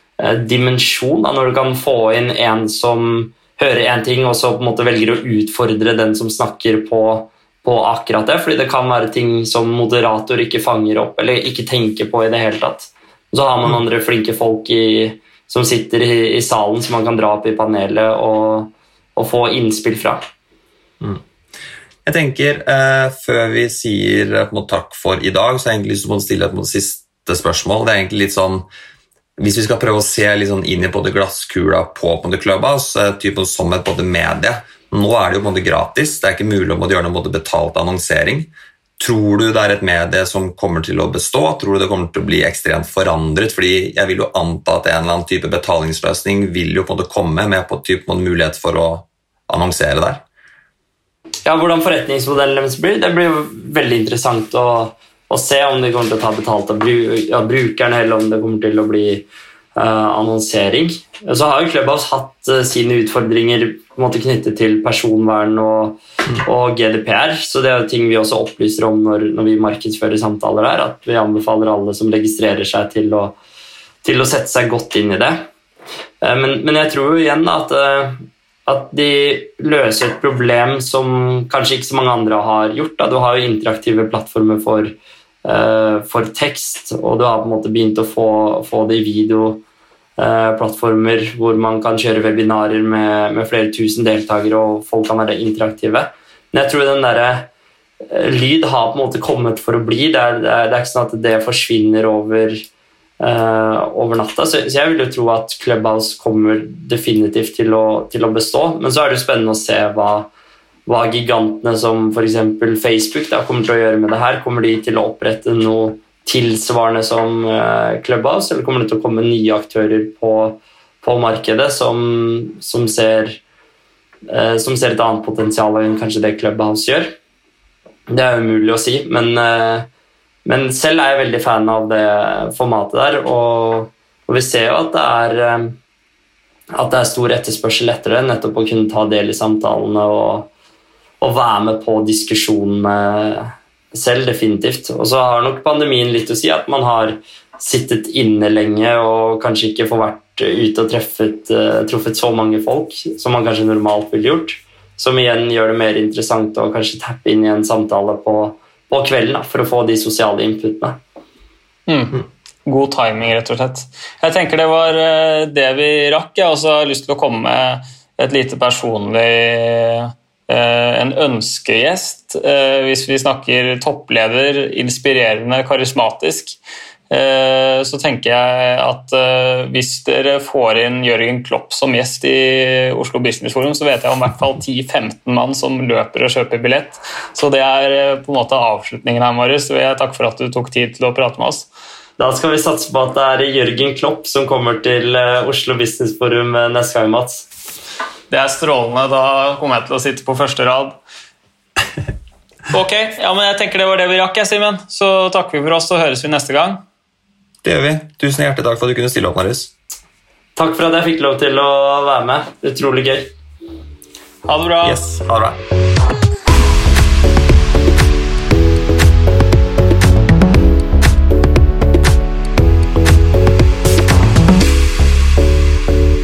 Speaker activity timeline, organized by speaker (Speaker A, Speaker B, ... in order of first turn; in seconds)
Speaker A: 0.2-20.2, 51.5-73.4, 74.0-75.4, 76.2-89.6, 90.2-97.5, 98.1-102.7, 103.2-110.3, 110.9-123.4, 124.3-127.1, 128.1-129.9, 130.4-135.8, 136.7-140.5, 141.2-161.0, 192.2-197.5, 210.6-213.3
Speaker B: 22.1-28.7, 29.4-50.2, 207.6-209.7, 214.8-215.6
Speaker C: 161.9-176.6, 177.1-191.7, 198.3-201.0, 202.7-206.8, 214.4-215.0